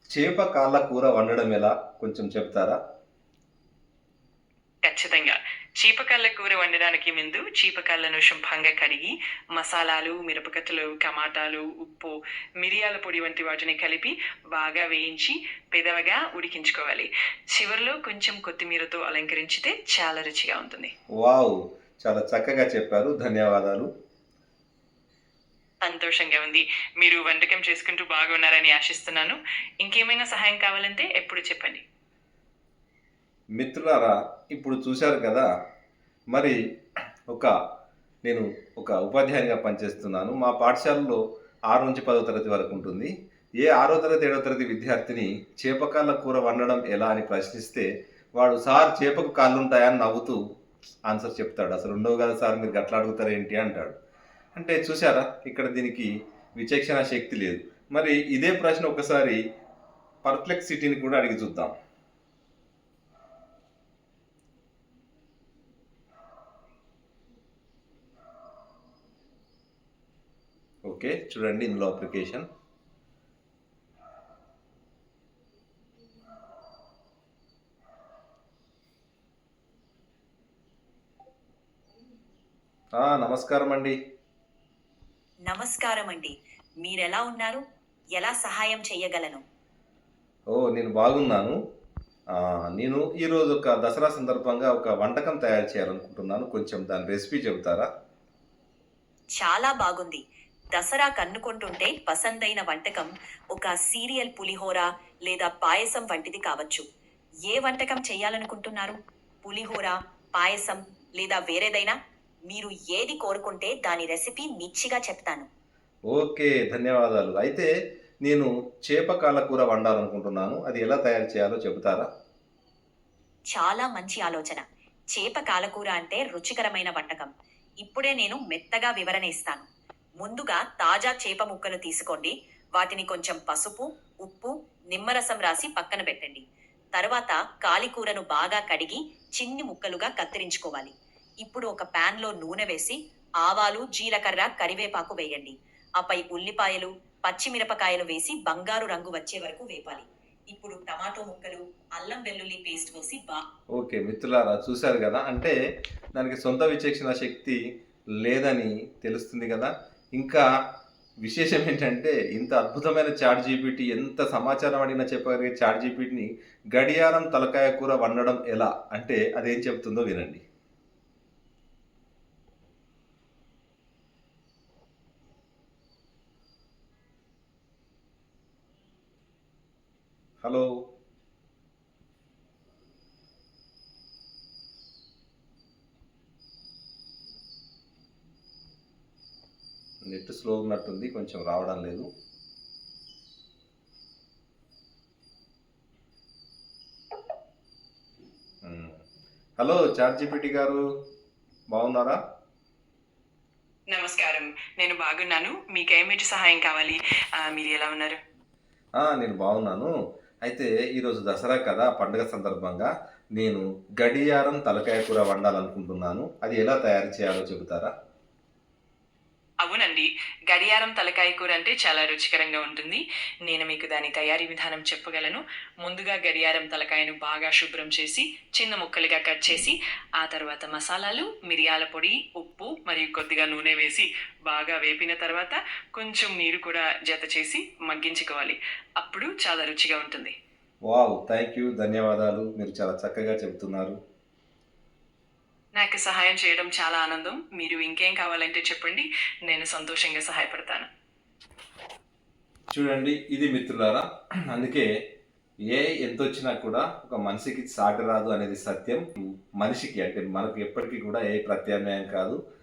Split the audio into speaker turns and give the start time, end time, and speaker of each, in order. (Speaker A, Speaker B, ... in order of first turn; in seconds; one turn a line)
Speaker A: 0.1-2.8
Speaker B: 4.8-20.9
Speaker A: 21.2-23.9
Speaker B: 25.8-31.8
Speaker A: 33.6-35.5
Speaker A: 36.3-36.6
Speaker A: 38.2-41.2
Speaker A: 41.7-43.1
Speaker A: 43.6-50.4
Speaker A: 51.1-54.0
Speaker A: 54.6-59.4
Speaker A: 60.2-61.7
Speaker A: 70.8-72.5
Speaker A: 83.0-84.0
Speaker C: 85.5-86.3
Speaker C: 86.8-87.6
Speaker C: 88.2-89.4
Speaker A: 90.5-91.6
Speaker A: 92.4-97.9
Speaker C: 99.4-100.2
Speaker C: 100.8-106.8
Speaker C: 107.5-112.0
Speaker C: 112.5-115.5
Speaker A: 116.1-117.7
Speaker A: 118.2-122.1
Speaker C: 123.5-124.6
Speaker C: 125.2-127.3
Speaker C: 127.8-129.7
Speaker C: 130.2-136.4
Speaker C: 137.0-153.4
Speaker A: 153.8-155.6
Speaker A: 156.2-157.6
Speaker A: 158.2-160.4
Speaker A: 161.2-170.4
Speaker A: 180.4-180.7
Speaker A: 190.1-192.1
Speaker A: 198.6-199.0
Speaker A: 199.6-200.8
Speaker A: 201.7-202.2
Speaker B: 203.9-208.2
Speaker A: 209.0-209.9
Speaker A: 210.4-217.9
Speaker B: 219.6-240.3
Speaker A: 240.9-244.0
Speaker B: 245.8-250.9
Speaker A: 252.7-254.9
Speaker A: 255.7-262.4